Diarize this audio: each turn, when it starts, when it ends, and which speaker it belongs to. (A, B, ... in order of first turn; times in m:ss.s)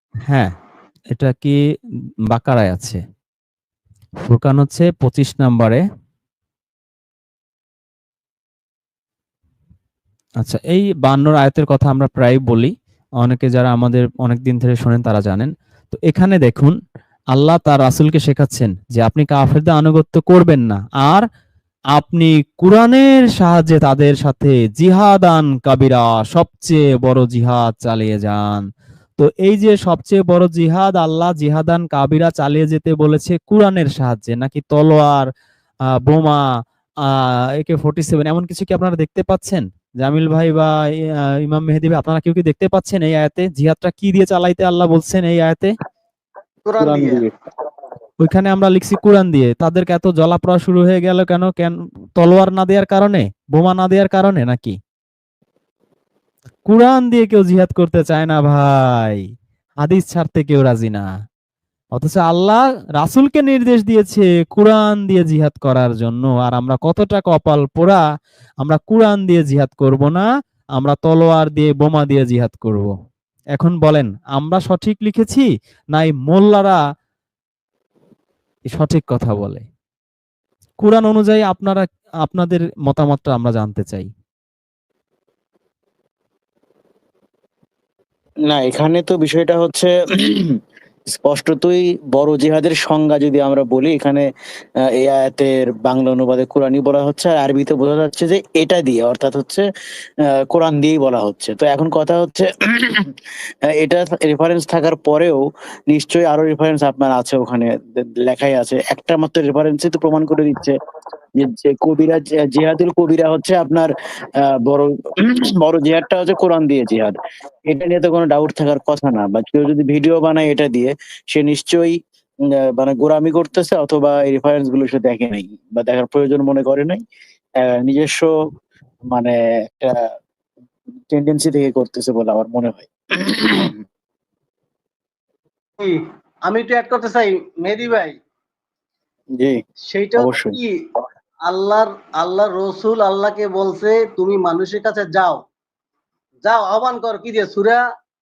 0:01.1-0:01.5 A
0:02.3-0:03.0 A
0:04.2-0:05.8 A
0:10.4-0:16.7 A
0:17.3-0:21.2 A
0:21.9-0:28.6 A
0:29.2-0:35.3 A
0:36.1-0:36.4 A
0:37.0-0:40.7 A
0:41.4-0:45.7 A
0:46.6-0:47.2 B
0:46.8-0:47.3 C
0:48.2-0:54.8 A
0:56.7-0:59.2 A
0:59.8-1:01.0 A
1:01.9-1:08.0 A
1:08.6-1:10.2 A
1:10.8-1:12.9 A
1:13.5-1:16.8 A
1:18.7-1:19.6 A
1:20.8-1:24.1 A
1:28.5-1:30.5 C
1:31.1-1:34.2 C
1:35.0-1:39.6 C
1:40.5-1:43.1 C
1:43.8-1:47.7 C
1:48.2-1:50.7 C
1:51.4-1:53.9 C
1:54.6-1:57.1 C
1:57.7-2:02.0 C
2:02.5-2:07.0 C
2:07.6-2:08.3 C
2:09.1-2:10.0 C
2:11.1-2:13.8 C
2:15.8-2:18.1 B
2:19.9-2:20.7 B
2:20.2-2:20.6 C
2:21.5-2:25.4 B
2:26.4-2:27.8 B